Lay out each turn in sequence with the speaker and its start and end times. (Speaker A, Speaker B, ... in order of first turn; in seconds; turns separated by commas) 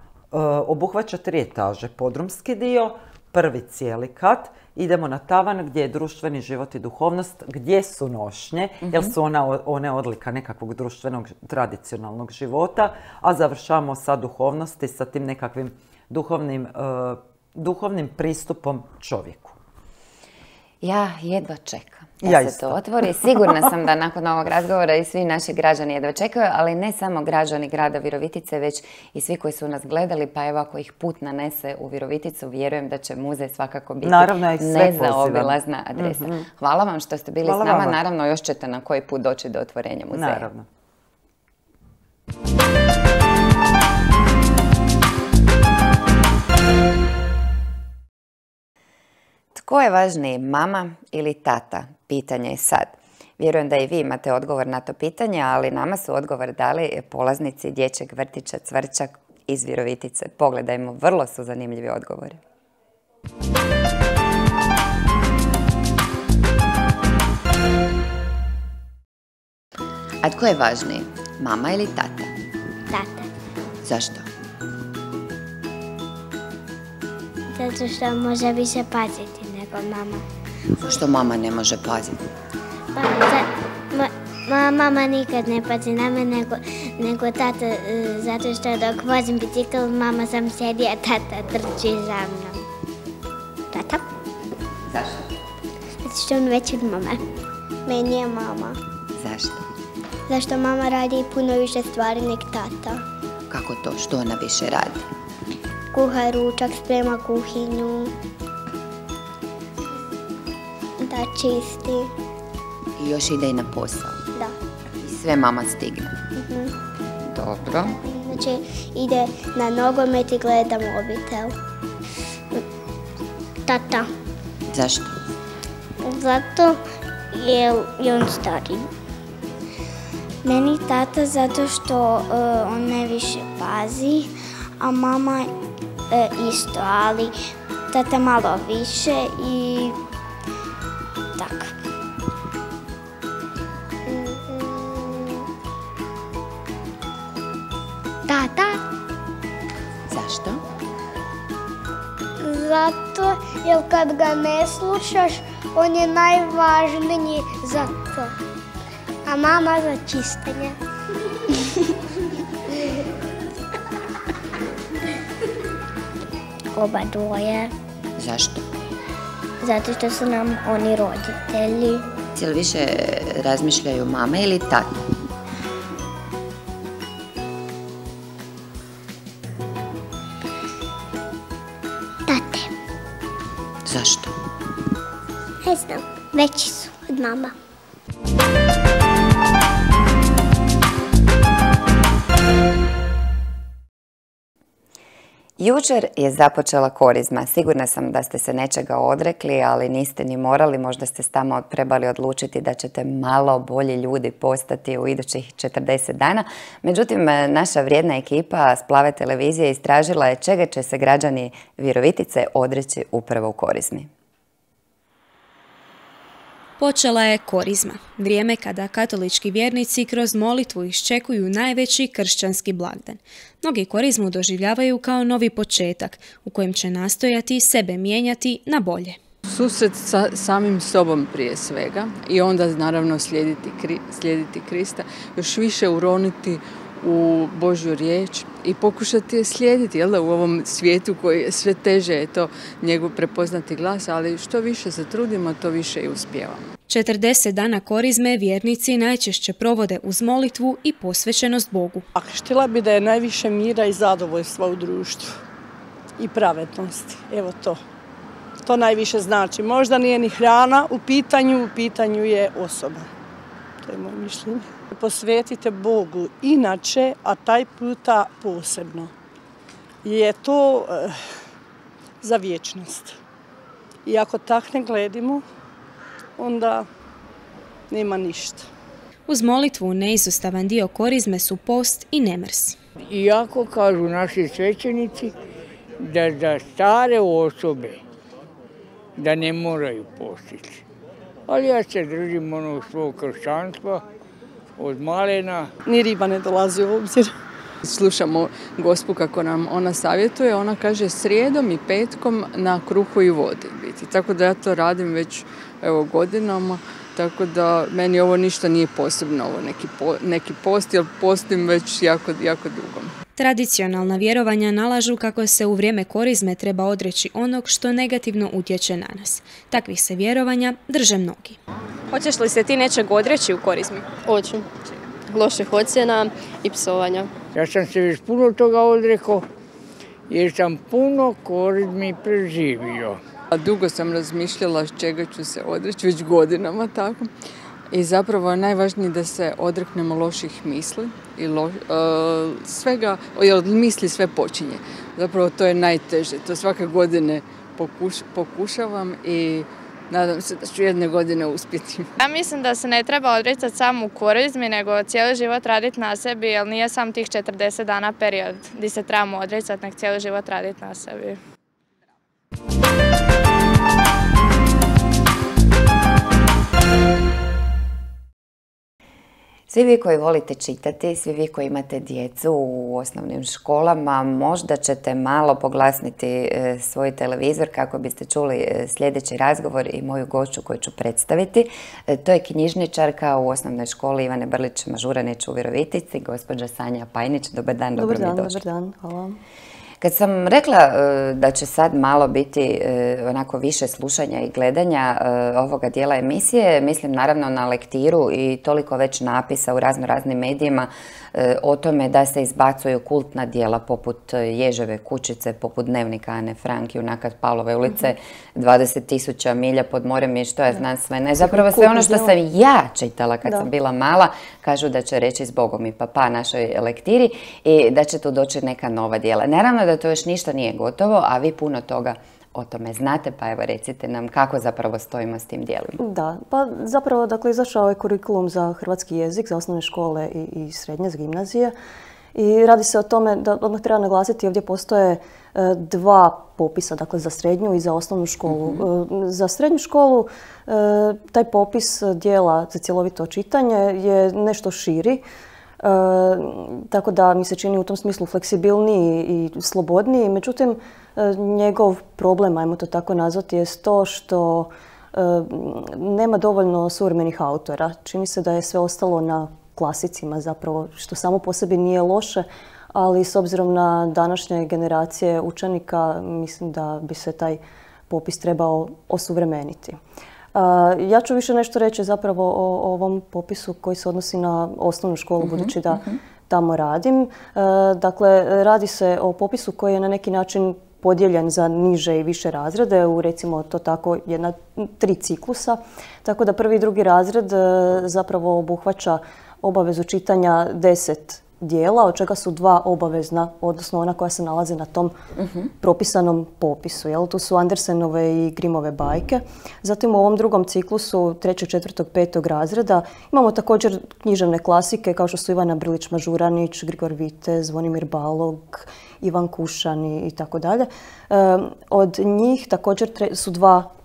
Speaker A: 0.3-19.6, Speaker B: 8.9-9.1, Speaker B: 20.8-40.5, Speaker A: 22.2-23.6, Speaker A: 34.0-36.5, Speaker A: 37.4-38.0, Speaker A: 40.1-40.6, Speaker B: 49.5-62.4, Speaker B: 70.2-72.3, Speaker C: 72.9-73.3, Speaker B: 73.8-74.3, Speaker C: 77.5-80.2, Speaker B: 80.8-82.2, Speaker C: 82.9-92.7, Speaker C: 93.7-94.0, Speaker B: 94.9-95.3, Speaker C: 96.0-97.2, Speaker C: 97.8-98.8, Speaker B: 99.2-99.6, Speaker C: 100.3-103.0, Speaker B: 103.5-105.0, Speaker C: 105.9-108.1, Speaker C: 111.0-112.1, Speaker B: 113.0-114.2, Speaker B: 115.0-116.2, Speaker C: 116.4-116.7, Speaker B: 117.3-118.0, Speaker C: 117.9-121.6, Speaker C: 123.7-124.1, Speaker B: 124.7-125.1, Speaker C: 126.0-126.8, Speaker C: 127.3-128.9, Speaker C: 130.4-135.5, Speaker C: 136.1-137.3, Speaker C: 137.9-140.0, Speaker C: 141.4-141.7, Speaker C: 144.1-145.4, Speaker C: 148.3-148.8, Speaker B: 150.1-150.6, Speaker C: 152.4-158.3, Speaker C: 159.2-160.8, Speaker C: 166.7-167.7, Speaker B: 168.2-168.6, Speaker C: 169.6-172.0, Speaker B: 172.3-174.9, Speaker C: 182.3-182.7, Speaker B: 183.8-184.3, Speaker C: 185.6-187.5, Speaker B: 195.6-214.1, Speaker D: 216.8-229.2, Speaker E: 229.4-246.7, Speaker D: 246.9-252.0, Speaker F: 252.1-255.3, Speaker F: 256.2-257.8, Speaker F: 258.6-263.1, Speaker F: 263.8-269.1, Speaker F: 270.0-271.2, Speaker F: 272.2-273.1, Speaker F: 274.0-275.4, Speaker F: 276.4-276.9, Speaker F: 277.9-278.7, Speaker D: 279.3-282.8, Speaker G: 283.0-285.3, Speaker G: 286.0-288.0, Speaker G: 289.2-290.8, Speaker G: 291.5-294.0, Speaker G: 294.8-295.7, Speaker F: 295.8-297.3, Speaker E: 297.8-313.1, Speaker D: 313.4-321.6, Speaker D: 322.1-324.0, Speaker H: 324.2-324.7, Speaker H: 325.3-327.3, Speaker G: 327.5-329.4, Speaker G: 330.3-333.2, Speaker E: 333.5-337.3, Speaker E: 337.9-352.1, Speaker I: 352.2-361.4, Speaker B: 369.7-388.6, Speaker J: 387.9-389.4, Speaker B: 390.0-426.0, Speaker J: 411.4-412.3, Speaker J: 426.0-431.7, Speaker J: 432.3-445.2, Speaker J: 445.8-470.0, Speaker J: 470.5-495.1, Speaker B: 475.4-476.1, Speaker B: 495.4-495.7, Speaker J: 495.8-513.9